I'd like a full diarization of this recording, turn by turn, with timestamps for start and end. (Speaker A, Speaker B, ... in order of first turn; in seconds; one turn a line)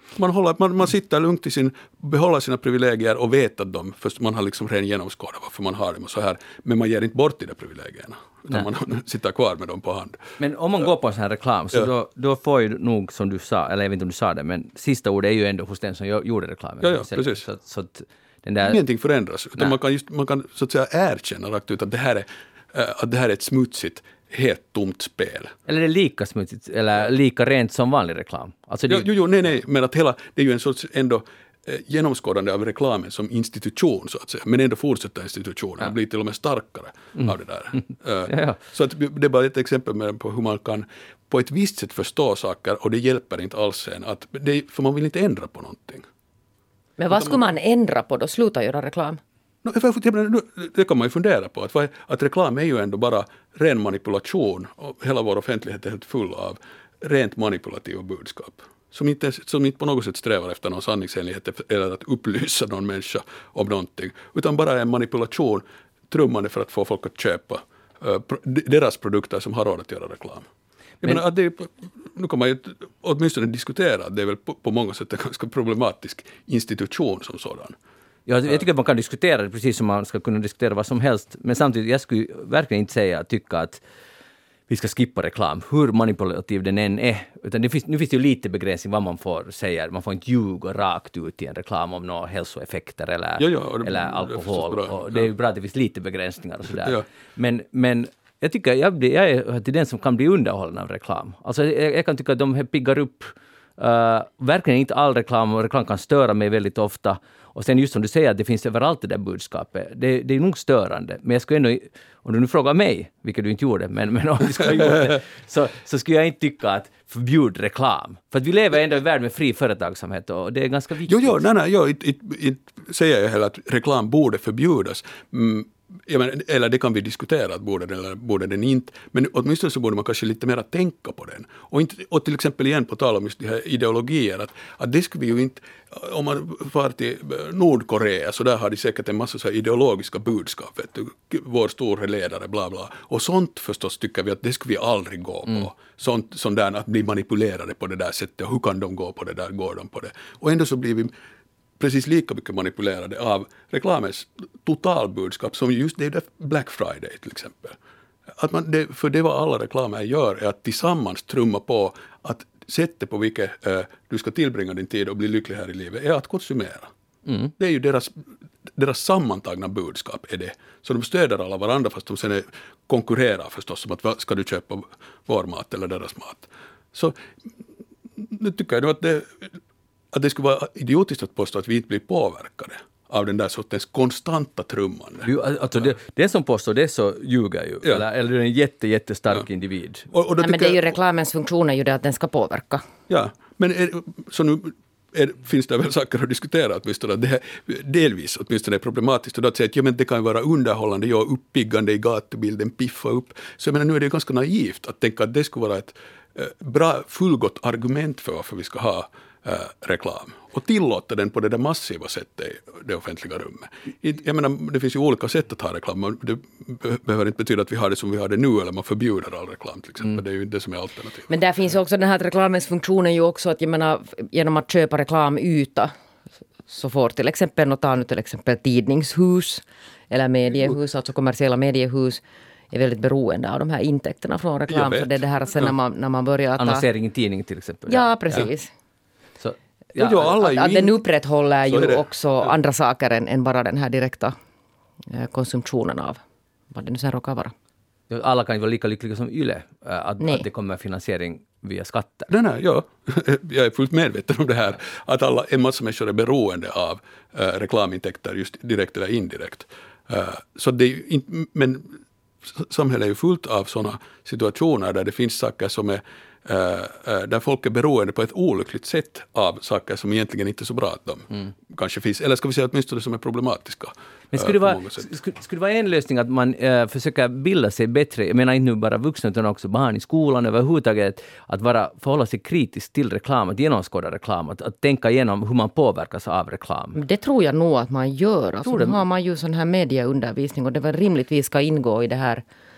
Speaker A: 0.1-10.2
Speaker B: 10.4-18.8
Speaker A: 16.8-17.4
Speaker A: 18.6-25.6
Speaker B: 25.7-29.1
Speaker A: 28.9-46.0
Speaker B: 38.3-38.6
Speaker C: 47.0-49.2
Speaker A: 49.6-70.5
Speaker A: 71.0-77.8
Speaker B: 78.3-83.8
Speaker B: 84.7-121.4
Speaker A: 93.4-95.3
Speaker A: 121.1-151.1
Speaker A: 151.8-157.8
Speaker A: 158.3-166.9
Speaker B: 167.3-167.5
Speaker A: 167.6-177.2
Speaker A: 178.2-179.6
Speaker A: 180.1-185.9
Speaker B: 185.2-190.1
Speaker A: 190.1-190.9
Speaker C: 190.4-192.8
Speaker A: 193.1-221.3
Speaker C: 221.3-225.9
Speaker C: 226.7-236.8
Speaker A: 234.7-235.7
Speaker B: 236.6-238.4
Speaker C: 237.9-238.7
Speaker B: 239.4-240.2
Speaker A: 239.9-241.0
Speaker C: 240.4-244.3
Speaker A: 241.7-242.0
Speaker C: 245.1-246.2
Speaker C: 246.7-247.5
Speaker B: 248.1-252.3
Speaker C: 250.2-250.4
Speaker A: 252.3-275.1
Speaker B: 274.3-287.0
Speaker C: 286.9-292.4
Speaker B: 288.6-289.0